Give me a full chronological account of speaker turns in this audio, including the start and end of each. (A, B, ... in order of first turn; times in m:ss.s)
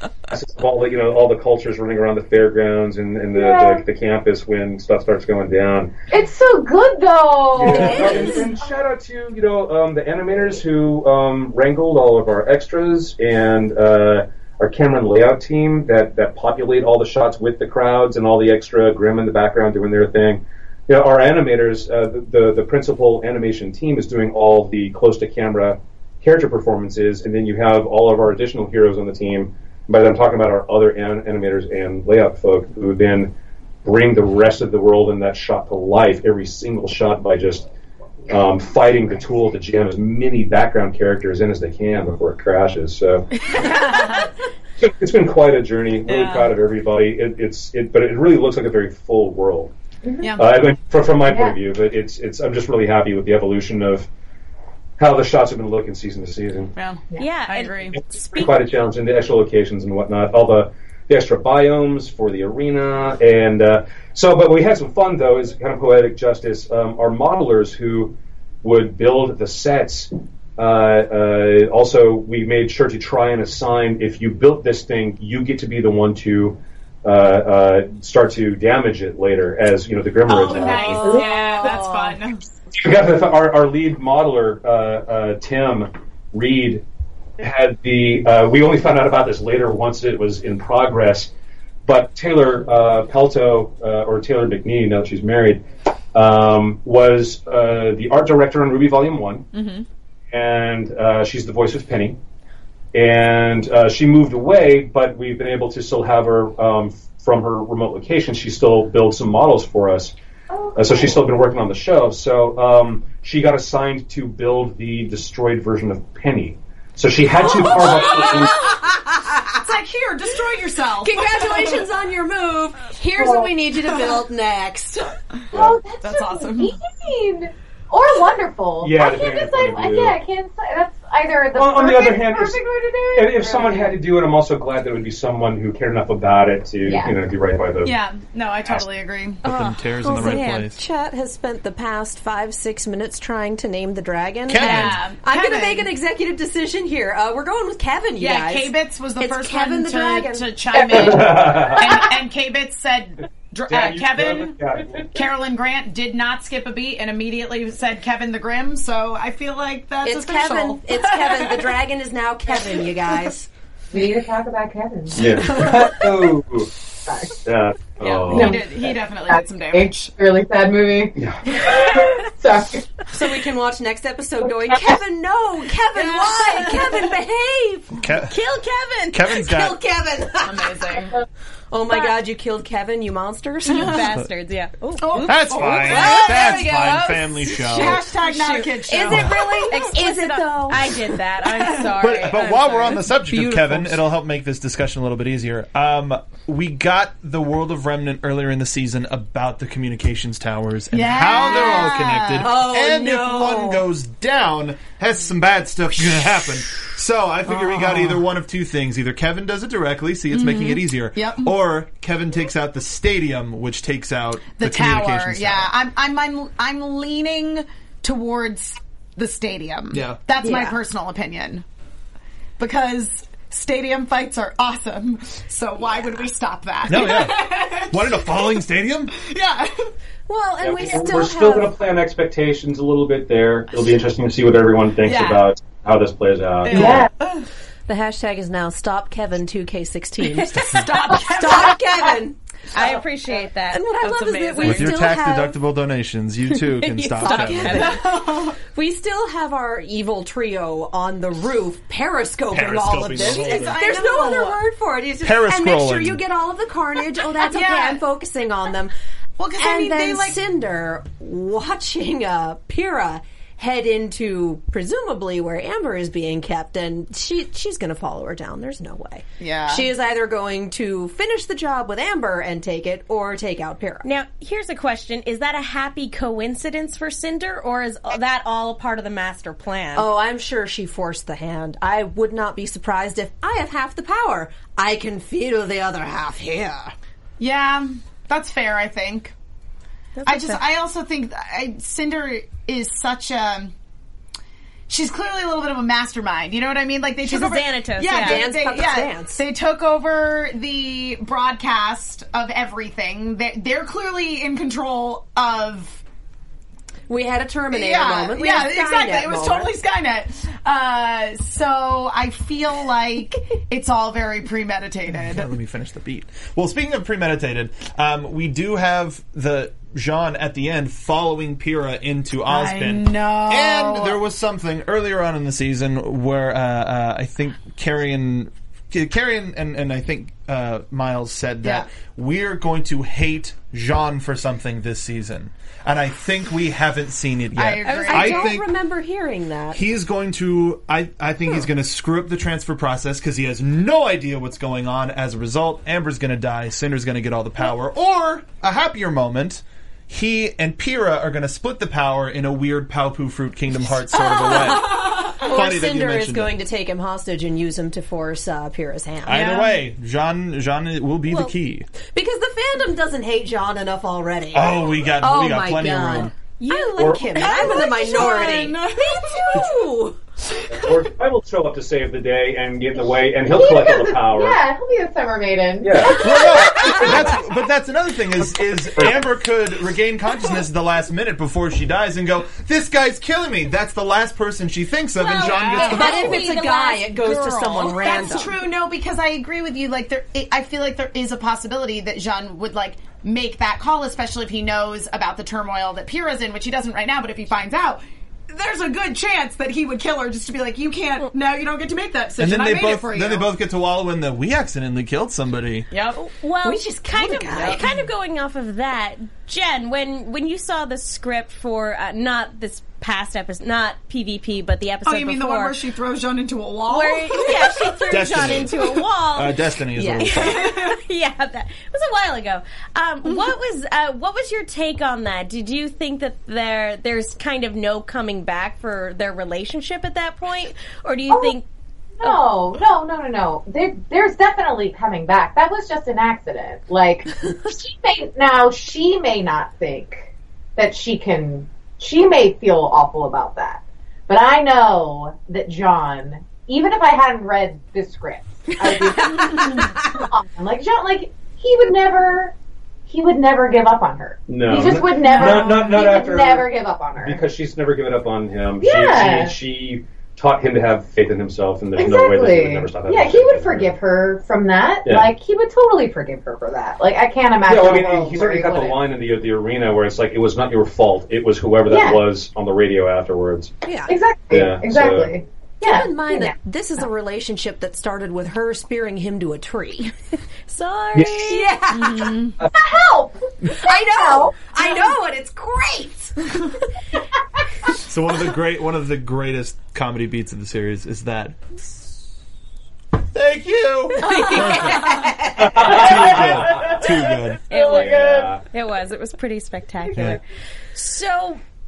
0:00.3-0:05.9 A
0:03.3-0:03.8 B
0:06.1-0:08.4 B
0:07.5-0:33.3 A
0:07.7-0:08.6 C
0:33.8-0:37.7 A
0:38.3-0:43.7 A
0:43.5-0:44.3 D
0:44.8-0:49.7 A
0:46.1-0:46.5 D
0:50.0-0:50.3 B
0:50.2-0:50.5 D
0:50.4-0:54.1 A
0:51.3-0:51.6 B
0:55.0-0:56.7 A
0:56.8-0:58.0 D
0:57.2-0:58.6 E
0:58.2-1:21.0 A
1:20.3-1:22.4 D
1:20.7-1:22.2 C
1:22.7-1:26.8 A
1:27.4-1:31.3 A
1:31.9-1:35.6 A
1:36.1-1:39.5 A
1:39.5-1:39.9 D
1:40.3-1:42.2 A
1:42.9-1:50.2 A
1:50.5-1:51.2 B
1:50.8-1:58.6 A
1:57.4-1:59.6 C
1:57.8-1:58.4 D
1:59.6-2:01.9 D
2:01.0-2:05.2 C
2:03.2-2:03.5 B
2:05.5-2:14.0 B
2:05.5-2:05.8 A
2:06.0-2:06.8 D
2:08.8-2:10.2 A
2:11.6-2:18.0 A
2:16.8-2:17.2 B
2:17.8-2:19.4 D
2:19.4-2:20.8 F
2:19.5-2:30.5 C
2:20.1-2:20.7 E
2:24.5-2:25.0 F
2:24.6-2:25.9 D
2:28.2-2:34.6 D
2:31.0-2:31.9 A
2:33.7-2:35.1 A
2:35.1-2:41.7 D
2:40.0-2:43.5 C
2:43.9-2:45.6 B
2:45.2-2:46.7 A
2:45.5-2:45.8 D
2:47.1-2:47.4 B
2:47.4-2:48.6 A
2:48.0-2:50.1 D
2:48.3-2:53.0 B
2:51.2-2:51.9 A
2:53.1-2:58.1 C
2:55.9-2:57.0 D
2:58.0-2:58.4 F
2:58.3-2:59.2 E
2:59.1-2:59.8 F
2:59.3-3:01.1 C
3:00.4-3:01.1 D
3:01.7-3:04.1 C
3:03.7-3:07.0 E
3:05.0-3:09.9 D
3:05.2-3:08.0 F
3:05.9-3:11.1 C
3:08.3-3:13.0 E
3:12.0-3:35.7 F
3:13.3-3:14.0 C
3:20.9-3:22.5 D
3:22.4-3:23.9 C
3:30.3-3:31.6 D
3:34.6-3:41.6 D
3:39.9-3:40.2 F
3:40.4-3:40.8 C
3:42.6-3:49.9 D
3:46.9-3:49.1 F
3:50.3-3:51.7 C
3:50.6-3:57.1 A
3:55.0-3:55.5 D
3:56.6-3:57.5 D
3:56.7-3:57.1 B
3:57.9-4:02.4 C
4:00.7-4:02.2 D
4:02.7-4:05.1 E
4:03.7-4:05.6 C
4:04.6-4:07.9 F
4:06.6-4:08.0 E
4:07.2-4:18.9 C
4:07.7-4:08.6 D
4:12.5-4:13.8 F
4:13.1-4:14.6 D
4:15.2-4:16.2 F
4:17.4-4:18.0 D
4:19.4-4:20.4 D
4:19.6-4:34.0 C
4:29.4-4:29.9 D
4:34.0-4:40.1 E
4:40.0-4:46.9 C
4:47.4-4:49.3 D
4:50.2-4:50.6 E
4:50.3-4:53.7 D
4:54.9-5:06.0 D
4:57.2-4:58.4 E
4:58.0-4:59.4 C
5:07.1-5:09.7 C
5:07.7-5:15.5 D
5:15.1-5:38.7 F
5:22.5-5:24.2 D
5:37.6-5:38.5 D
5:38.0-5:39.8 C
5:39.7-5:56.5 F
5:54.3-5:55.4 D
5:54.4-5:59.6 C
5:59.3-6:01.9 F
5:59.3-5:59.8 D
6:02.1-6:10.2 C
6:04.5-6:06.3 F
6:06.7-6:07.5 E
6:07.0-6:07.4 A
6:07.3-6:09.7 D
6:10.7-6:14.6 A
6:13.4-6:17.0 B
6:15.8-6:17.3 A
6:16.1-6:26.4 F
6:25.2-6:43.5 D
6:25.8-6:28.6 C
6:42.4-6:45.9 F
6:45.9-6:46.2 D
6:46.2-6:55.8 E
6:46.6-6:48.0 C
6:55.0-6:58.0 D
6:56.9-6:59.6 E
6:58.1-7:00.6 F
6:59.9-7:00.5 C
7:00.2-7:11.6 E
7:00.3-7:01.0 D
7:11.3-7:11.6 B
7:12.2-7:32.6 B
7:29.2-7:29.9 C
7:33.1-7:37.4 B
7:34.5-7:44.0 A
7:35.2-7:36.0 D
7:38.8-7:39.6 B
7:42.0-7:49.0 B
7:47.7-7:53.7 A
7:51.9-7:52.2 B
7:53.8-7:54.2 C
7:54.1-7:56.6 B
7:54.5-7:55.3 A
7:55.8-8:00.1 C
8:00.7-8:01.7 E
8:01.4-8:02.4 C
8:01.9-8:02.6 D
8:02.7-8:04.5 B
8:03.7-8:06.8 C
8:08.1-8:11.7 F
8:13.3-8:15.2 F
8:14.2-8:16.1 C
8:15.6-8:17.0 A
8:15.8-8:17.7 F
8:17.7-8:20.4 E
8:17.7-8:18.6 A
8:17.8-8:18.5 B
8:21.0-8:21.6 E